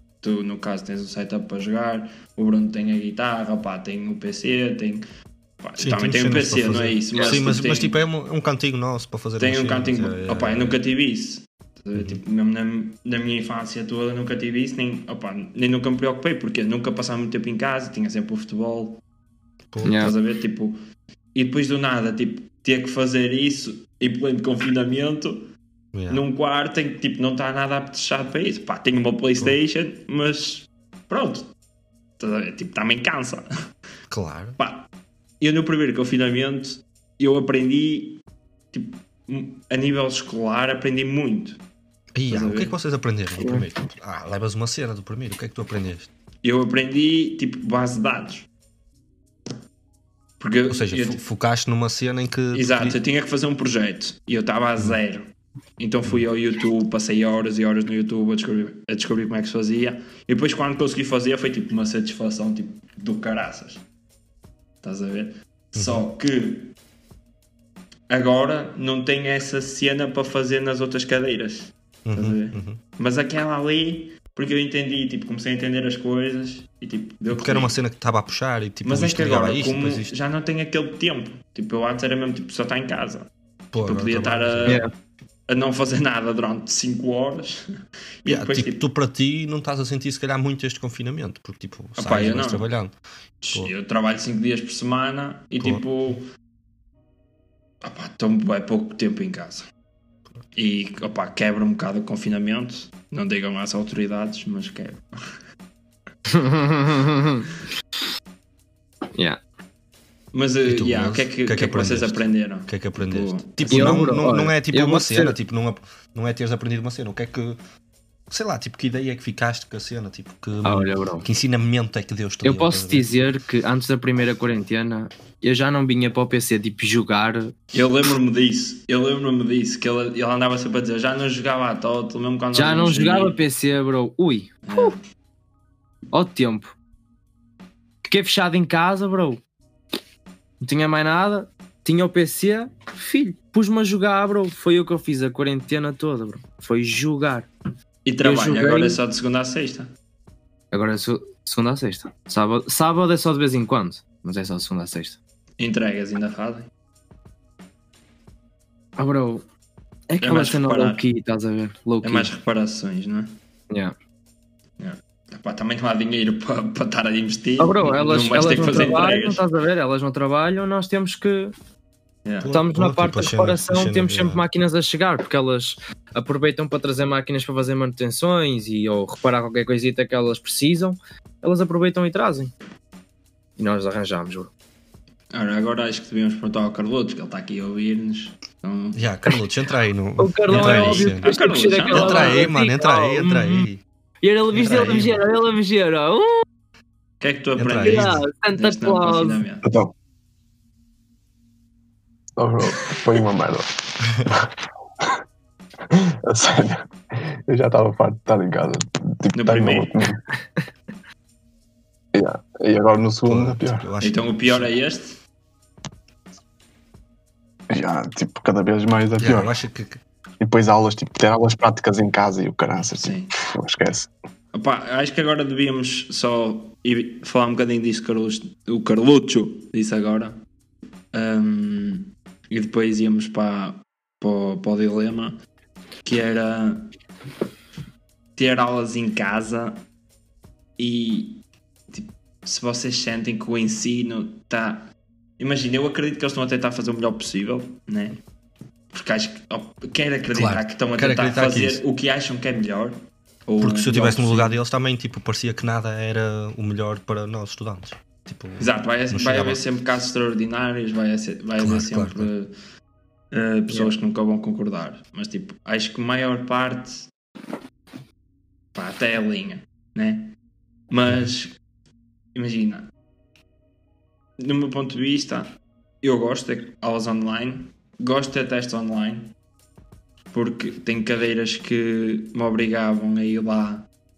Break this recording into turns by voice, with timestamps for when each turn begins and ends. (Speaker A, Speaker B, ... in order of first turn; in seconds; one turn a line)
Speaker A: 0.2-5.0
Speaker A: 5.6-8.0
Speaker B: 5.8-10.8
Speaker A: 9.4-19.0
Speaker B: 19.7-20.1
Speaker C: 19.8-20.1
Speaker A: 19.9-20.8
Speaker A: 21.3-25.5
Speaker B: 25.9-26.2
Speaker A: 26.1-31.5
Speaker A: 32.2-33.5
Speaker B: 34.1-34.6
Speaker A: 34.6-34.9
Speaker A: 35.4-41.6
Speaker B: 42.1-46.1
Speaker A: 42.3-42.7
Speaker C: 43.4-43.6
Speaker A: 46.4-48.5
Speaker A: 50.4-51.2
Speaker B: 50.7-53.0
Speaker A: 52.5-55.2
Speaker A: 55.8-63.8
Speaker A: 64.8-66.7
Speaker B: 65.7-66.0
Speaker A: 68.1-77.7
Speaker B: 72.0-72.8
Speaker B: 77.3-80.1
Speaker A: 78.8-83.3
Speaker B: 83.7-84.8
Speaker A: 83.8-84.8
Speaker A: 85.5-87.7
Speaker A: 88.2-88.8
Speaker B: 88.2-92.9
Speaker A: 92.0-92.7
Speaker A: 93.4-96.2
Speaker A: 97.8-99.7
Speaker A: 100.5-105.1
Speaker C: 106.3-107.5
Speaker C: 109.1-109.4
Speaker A: 110.3-114.1
Speaker B: 110.7-117.6
Speaker C: 113.7-115.3
Speaker B: 118.3-123.1
Speaker C: 120.6-121.2
Speaker C: 122.4-127.5
Speaker A: 127.7-133.4
Speaker C: 132.5-134.9
Speaker A: 134.7-135.0
Speaker C: 136.1-136.7
Speaker C: 138.0-139.4
Speaker C: 140.6-147.5
Speaker A: 148.0-149.9
Speaker C: 148.2-149.0
Speaker C: 150.7-155.2
Speaker A: 155.6-156.7
Speaker C: 159.0-159.4
Speaker C: 160.1-162.3
Speaker A: 160.2-161.0
Speaker A: 162.0-163.3
Speaker A: 164.8-169.4
Speaker C: 167.6-171.5
Speaker A: 172.2-172.5
Speaker B: 172.4-174.4
Speaker C: 172.5-182.5
Speaker C: 183.6-184.5
Speaker A: 185.3-189.0
Speaker B: 188.9-191.3
Speaker C: 190.2-193.7
Speaker A: 190.5-192.5
Speaker B: 191.9-193.8
Speaker C: 194.2-196.4
Speaker B: 194.5-195.2
Speaker A: 197.2-199.6
Speaker B: 197.6-198.2
Speaker C: 197.8-199.4
Speaker D: 199.6-199.9
Speaker D: 202.4-204.5
Speaker D: 205.9-210.2
Speaker A: 209.3-209.9
Speaker D: 212.1-213.9
Speaker B: 213.2-214.7
Speaker A: 214.0-215.2
Speaker D: 217.7-219.5
Speaker B: 219.2-220.0
Speaker D: 220.4-224.1
Speaker A: 223.0-223.3
Speaker A: 224.5-230.4
Speaker A: 231.1-235.4
Speaker A: 236.0-236.9
Speaker A: 238.4-239.8
Speaker A: 240.8-244.9
Speaker A: 245.4-248.2
Speaker A: 248.9-254.6
Speaker B: 250.3-251.8
Speaker B: 253.6-259.6
Speaker A: 258.6-262.5
Speaker B: 261.6-262.3
Speaker A: 263.3-267.1
Speaker A: 268.7-270.3
Speaker A: 270.9-271.6
Speaker A: 272.3-272.9
Speaker A: 274.4-279.3
Speaker A: 280.3-283.9